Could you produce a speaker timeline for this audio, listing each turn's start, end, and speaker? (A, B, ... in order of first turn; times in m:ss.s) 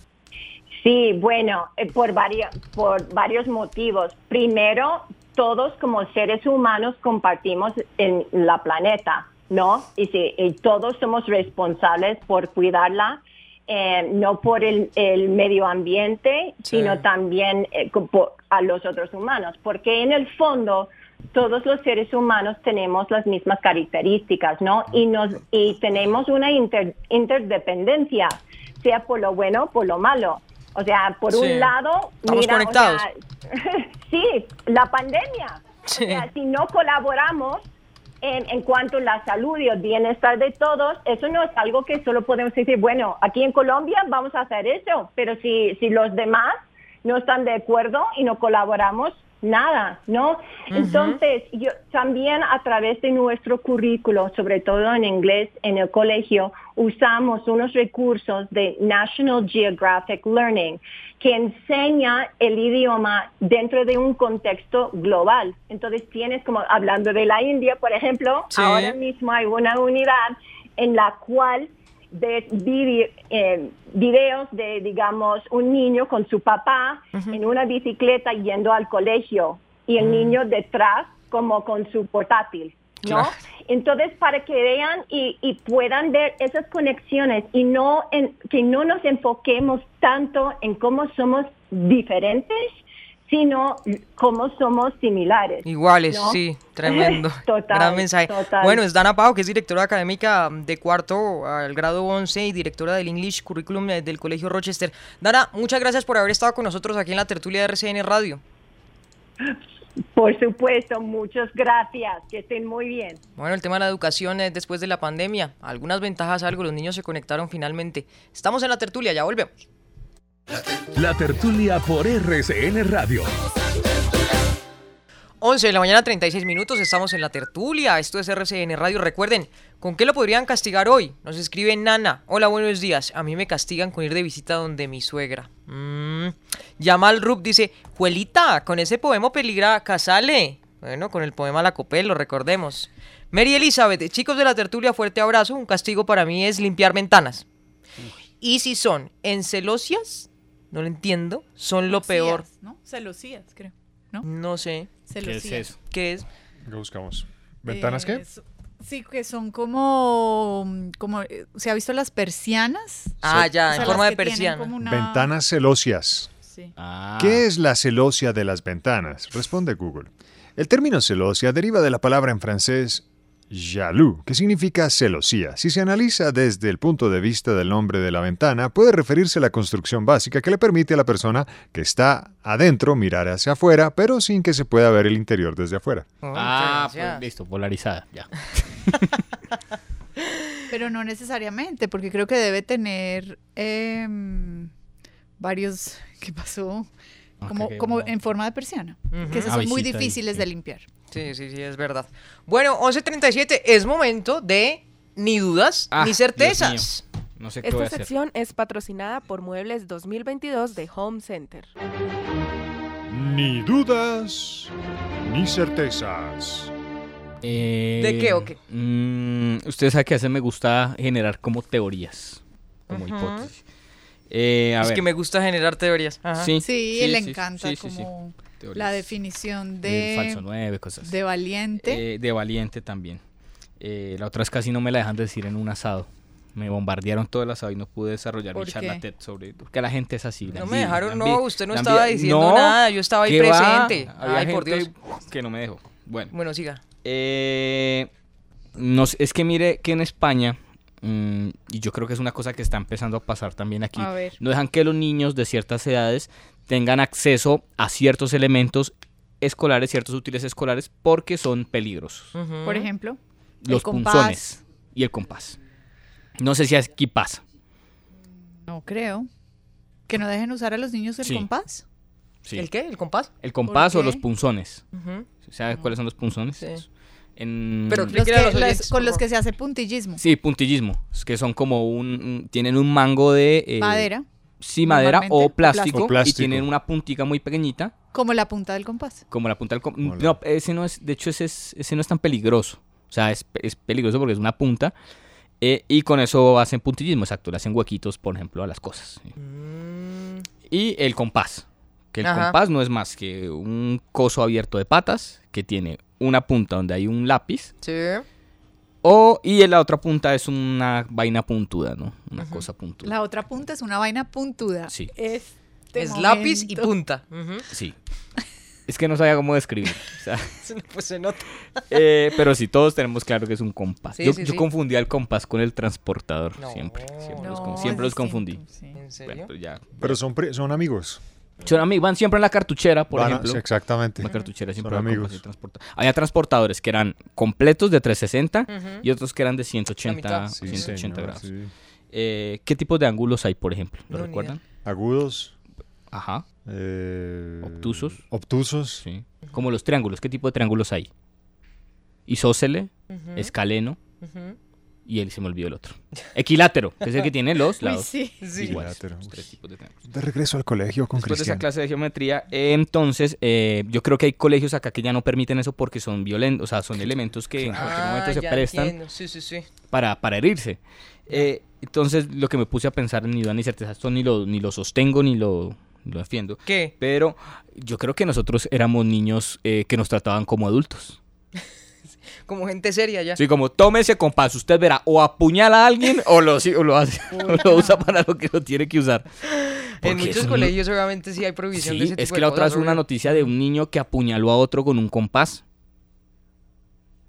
0:00.8-0:37.6 A
0:16.6-0:17.0 B
0:31.3-0:31.7 B
0:32.2-0:33.1 B
0:35.8-0:36.2 B
0:38.2-1:32.7 A
0:50.7-0:51.2 B
1:08.5-1:09.0 B
1:20.0-1:20.4 B
1:23.0-1:23.4 B
1:33.3-1:38.8 A
1:35.6-1:48.4 B
1:50.2-1:53.2 A
1:53.4-1:59.5 B
2:01.0-2:03.3 C
2:05.4-2:27.4 B
2:28.4-2:32.4 B
2:31.9-2:34.3 D
2:34.2-2:34.9 B
2:35.1-2:35.7 D
2:35.2-2:35.8 E
2:35.8-2:36.3 B
2:36.7-2:38.2 F
2:37.7-2:45.3 D
2:43.2-2:44.7 B
2:44.8-2:46.3 F
2:46.5-2:46.7 D
2:46.8-2:47.4 E
2:47.2-3:06.1 F
3:06.2-3:07.2 B
3:06.3-3:09.0 E
3:10.7-3:14.7 D
3:15.4-3:16.9 D
3:17.4-3:18.1 E
3:17.5-3:20.9 D
3:19.1-3:19.5 B
3:19.4-3:20.5 E
3:21.1-3:27.0 B
3:25.9-3:28.1 E
3:27.6-3:31.7 G
3:33.1-3:36.7 F
3:37.4-3:43.6 E
3:38.0-3:38.6 B
3:42.9-3:43.5 B
3:44.3-3:45.0 E
3:44.8-3:46.5 B
3:46.4-3:48.1 E
3:46.6-3:50.4 D
3:48.6-3:49.1 E
3:49.8-3:51.2 E
3:51.0-3:52.0 D
3:51.8-3:53.2 E
3:53.8-4:06.3 E
3:58.6-3:59.0 D
4:00.5-4:04.9 B
4:06.3-4:06.8 B
4:07.0-4:08.1 E
4:08.8-4:22.3 E
4:14.0-4:14.4 D
4:22.3-4:22.9 B
4:22.6-4:24.6 D
4:23.6-4:25.6 E
4:26.4-4:27.4 E
4:28.7-4:29.3 D
4:30.1-4:31.8 D
4:31.2-4:31.5 E
4:32.6-4:33.3 B
4:33.4-4:34.8 E
4:33.7-4:34.2 D
4:34.9-4:35.3 B
4:35.4-4:36.9 E
4:37.4-4:38.2 E
4:37.9-4:39.2 B
4:38.1-4:40.2 D
4:40.2-4:44.1 E
4:43.8-4:44.2 D
4:44.6-4:47.9 E
4:44.8-4:46.1 D
4:45.9-4:46.7 F
4:48.1-4:49.2 D
4:49.3-4:54.9 E
4:50.0-4:50.4 F
4:55.6-4:59.3 E
4:59.4-5:00.4 B
5:00.7-5:07.7 E
5:02.2-5:02.6 B
5:07.8-5:08.2 B
5:09.0-5:13.2 E
5:12.4-5:12.7 B
5:13.0-5:16.9 D
5:16.0-5:17.7 B
5:18.9-5:20.5 E
5:20.6-5:21.4 B
5:21.9-5:28.6 E
5:24.2-5:24.7 B
5:26.6-5:27.7 B
5:27.4-5:29.0 D
5:29.0-5:29.5 B
5:29.2-5:30.2 E
5:30.0-5:31.2 F
5:31.6-5:41.5 E
5:33.1-5:34.3 F
5:34.8-5:35.4 F
5:38.7-5:39.0 B
5:40.0-5:41.0 B
5:40.6-5:41.7 F
5:42.1-5:44.6 E
5:44.1-5:44.6 B
5:44.8-5:45.5 F
5:46.1-5:46.4 E
5:46.6-5:49.0 F
5:47.6-5:48.2 E
5:49.0-5:51.1 E
5:52.3-5:54.0 E
5:53.1-5:53.5 B
5:54.2-5:54.6 B
5:55.1-5:59.9 E
5:57.8-5:58.5 D
5:58.4-5:58.8 B
5:58.6-5:59.4 F
6:00.1-6:01.6 F
6:01.1-6:09.0 E
6:07.7-6:09.7 B
6:09.9-6:21.2 E
6:16.7-6:16.9 B
6:22.4-6:23.4 B
6:23.4-6:29.3 E
6:27.4-6:28.0 D
6:29.5-6:33.5 B
6:30.0-6:30.7 E
6:31.7-6:35.6 E